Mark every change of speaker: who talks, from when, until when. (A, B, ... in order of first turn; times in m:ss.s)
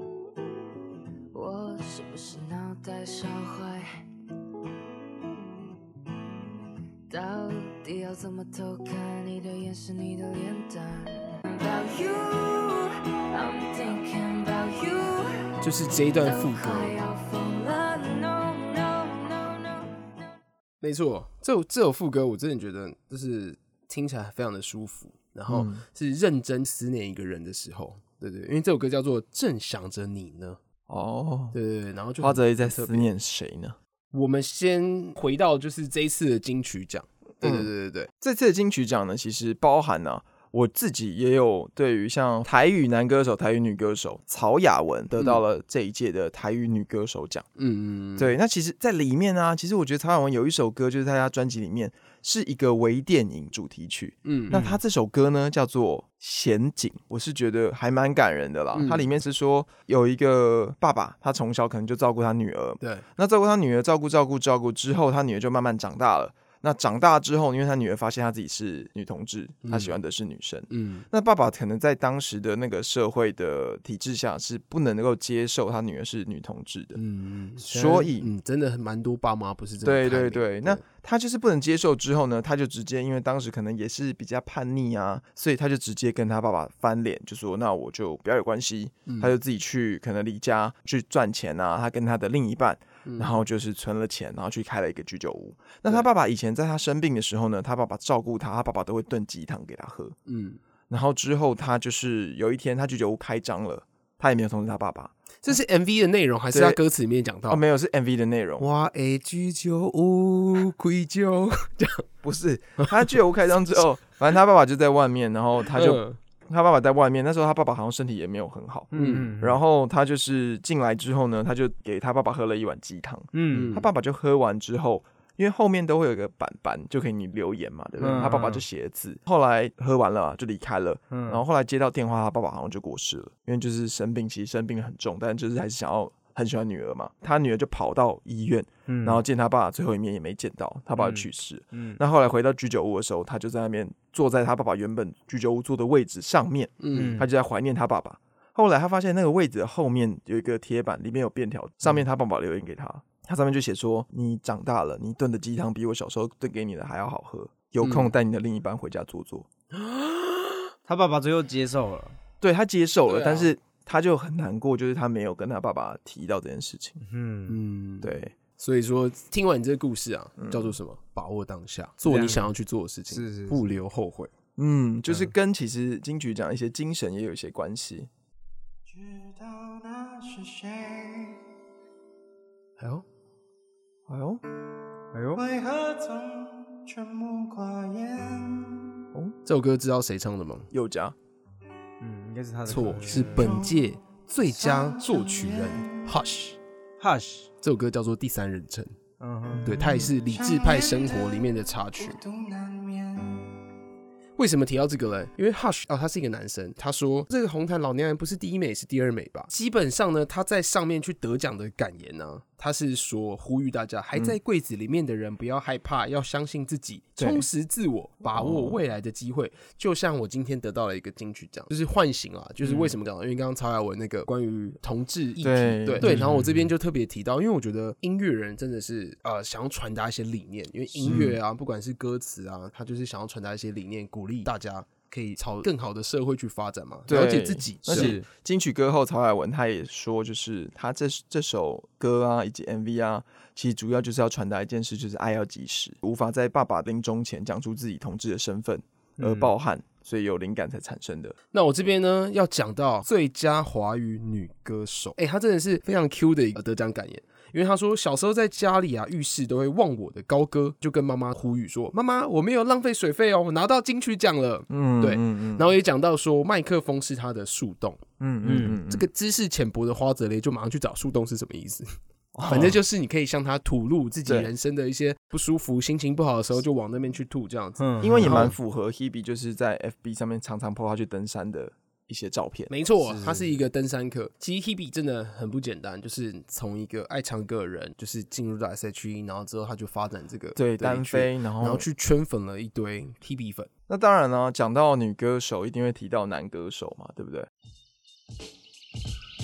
0:01.3-0:04.0 A
0:07.1-0:19.9 A
0:15.6-0:17.0 B
0:20.8-0:30.6 B
0:25.5-0:25.8 C
0:30.9-0:31.6 C
0:31.5-0:33.1 B
0:32.2-0:33.8 C
0:34.1-0:38.1 B
0:37.4-0:47.5 C
0:47.6-0:48.3 B
0:48.2-1:17.0 C
0:54.2-0:54.7 B
0:58.7-0:59.1 B
1:09.6-1:09.9 B
1:10.7-1:11.1 B
1:17.0-1:20.8 B
1:17.6-1:18.3 C
1:19.8-1:40.2 C
1:29.1-1:29.3 B
1:33.1-1:33.4 B
1:40.3-1:40.6 B
1:40.9-1:45.1 C
1:45.4-1:47.6 B
1:46.5-1:46.8 C
1:47.5-1:48.7 C
1:48.6-1:52.0 B
1:52.2-2:39.5 C
1:55.7-1:56.2 B
1:58.9-1:59.6 D
1:59.0-1:59.4 B
2:03.3-2:03.8 D
2:03.5-2:03.9 B
2:08.0-2:08.4 B
2:08.0-2:08.6 D
2:11.1-2:11.4 D
2:18.9-2:19.2 D
2:21.0-2:22.0 D
2:26.8-2:27.2 B
2:26.9-2:27.3 D
2:37.8-2:38.1 B
2:39.7-2:40.7 B
2:40.9-2:42.2 D
2:42.4-2:47.0 C
2:43.1-2:43.5 B
2:47.0-2:47.6 D
2:47.5-2:54.3 B
2:48.0-2:48.4 C
2:50.4-2:50.7 C
2:52.1-2:52.5 D
2:53.1-2:53.6 D
2:54.6-2:58.1 C
2:58.9-3:01.4 E
3:02.8-3:03.0 B
3:04.1-3:04.4 C
3:05.1-3:05.4 D
3:05.3-3:09.0 E
3:09.4-3:10.7 B
3:10.7-3:11.2 C
3:12.0-3:13.6 D
3:12.7-3:16.6 B
3:13.4-3:13.8 E
3:14.5-3:16.1 E
3:17.0-3:17.5 D
3:17.6-3:19.0 B
3:19.2-3:20.1 D
3:19.6-3:22.2 B
3:20.2-3:23.6 E
3:24.4-3:58.2 B
3:37.2-3:37.5 C
3:38.4-3:38.8 C
3:45.4-3:46.3 C
3:46.0-3:46.7 D
3:51.0-3:51.3 D
3:51.0-3:51.4 C
3:57.1-4:11.4 C
3:57.9-3:58.2 D
4:09.2-4:09.5 D
4:11.5-4:28.0 B
4:24.7-4:25.7 C
4:28.2-4:29.1 C
4:28.4-4:28.8 D
4:28.7-4:31.9 B
4:32.4-4:32.8 C
4:32.4-4:38.5 B
4:37.8-4:38.5 D
4:38.0-4:42.7 C
4:42.7-4:53.7 B
4:43.0-4:43.5 D
4:50.6-4:51.9 C
4:53.9-4:57.5 C